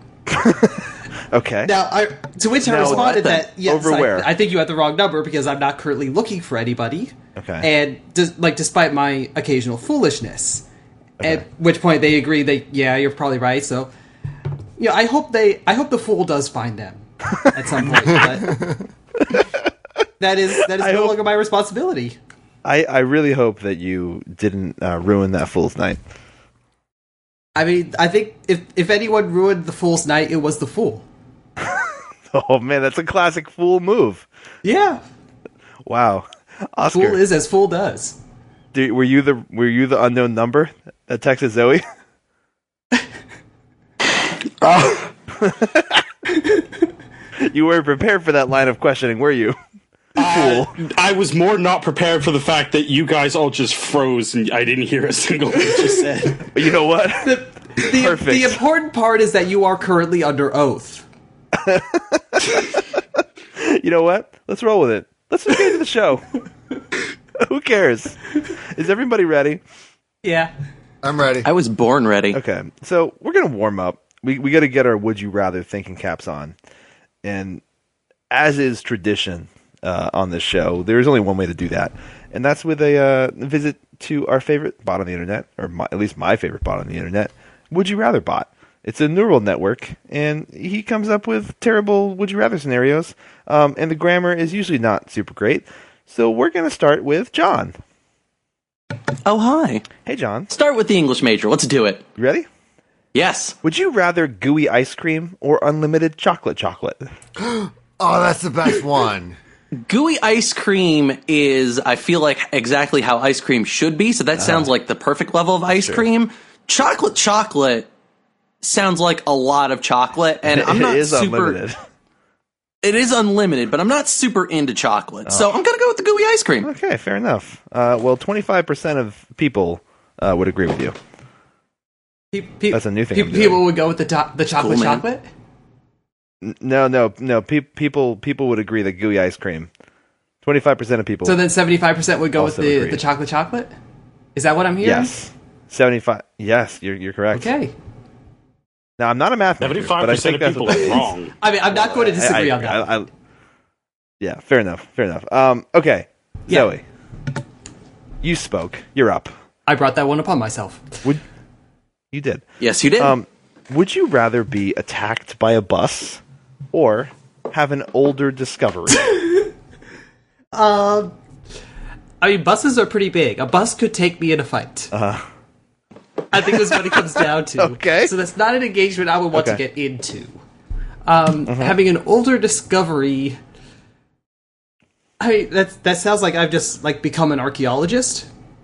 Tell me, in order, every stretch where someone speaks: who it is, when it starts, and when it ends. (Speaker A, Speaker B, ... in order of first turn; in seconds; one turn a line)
Speaker A: 0.3-1.7
Speaker B: 1.6-10.7
Speaker A: 2.6-4.3
Speaker C: 2.7-3.5
Speaker A: 7.4-7.7
Speaker B: 11.2-13.9
Speaker B: 14.8-18.6
Speaker D: 18.2-18.8
Speaker A: 19.2-19.7
Speaker B: 20.2-22.2
Speaker A: 20.8-21.2
Speaker A: 22.6-26.0
Speaker B: 27.6-31.1
Speaker A: 31.6-34.2
Speaker B: 34.6-35.0
Speaker A: 35.9-37.2
Speaker B: 36.9-38.2
Speaker A: 38.7-41.8
Speaker E: 44.6-45.1
Speaker A: 45.4-46.0
Speaker A: 47.4-49.6
Speaker E: 50.2-56.5
Speaker A: 50.2-50.7
Speaker A: 56.5-58.6
Speaker B: 57.2-61.1
Speaker A: 61.5-63.0
Speaker A: 63.6-66.3
Speaker A: 67.4-69.6
Speaker B: 70.2-70.5
Speaker D: 71.0-71.5
Speaker C: 71.4-72.4
Speaker A: 72.3-76.5
Speaker A: 77.2-77.6
Speaker A: 78.3-97.7
Speaker C: 99.3-99.9
Speaker A: 100.1-100.5
Speaker C: 100.5-102.0
Speaker A: 102.2-102.5
Speaker C: 103.1-103.5
Speaker A: 103.6-107.1
Speaker D: 107.4-109.4
Speaker C: 109.8-117.9
Speaker A: 114.4-114.7
Speaker A: 115.7-116.1
Speaker C: 118.6-121.6
Speaker A: 120.4-121.8
Speaker C: 122.8-126.7
Speaker A: 125.3-125.5
Speaker A: 126.6-130.9
Speaker B: 132.3-135.3
Speaker A: 132.7-133.6
Speaker C: 134.6-135.0
Speaker A: 136.4-139.7
Speaker A: 140.4-141.4
Speaker B: 141.2-143.7
Speaker A: 142.4-143.0
Speaker B: 144.3-145.1
Speaker A: 144.8-147.5
Speaker B: 147.3-147.7
Speaker A: 149.0-151.1
Speaker E: 149.6-151.3
Speaker B: 151.4-152.9
Speaker A: 151.7-153.1
Speaker A: 154.2-156.8
Speaker A: 158.2-159.3
Speaker B: 159.7-160.9
Speaker A: 162.1-162.4
Speaker C: 162.6-163.2
Speaker A: 163.0-166.2
Speaker A: 166.7-169.1
Speaker B: 170.5-171.1
Speaker B: 172.2-174.9
Speaker A: 174.9-175.3
Speaker B: 176.3-180.4
Speaker A: 176.7-178.1
Speaker A: 179.3-179.6
Speaker B: 181.1-183.4
Speaker A: 181.5-181.8
Speaker B: 185.2-188.3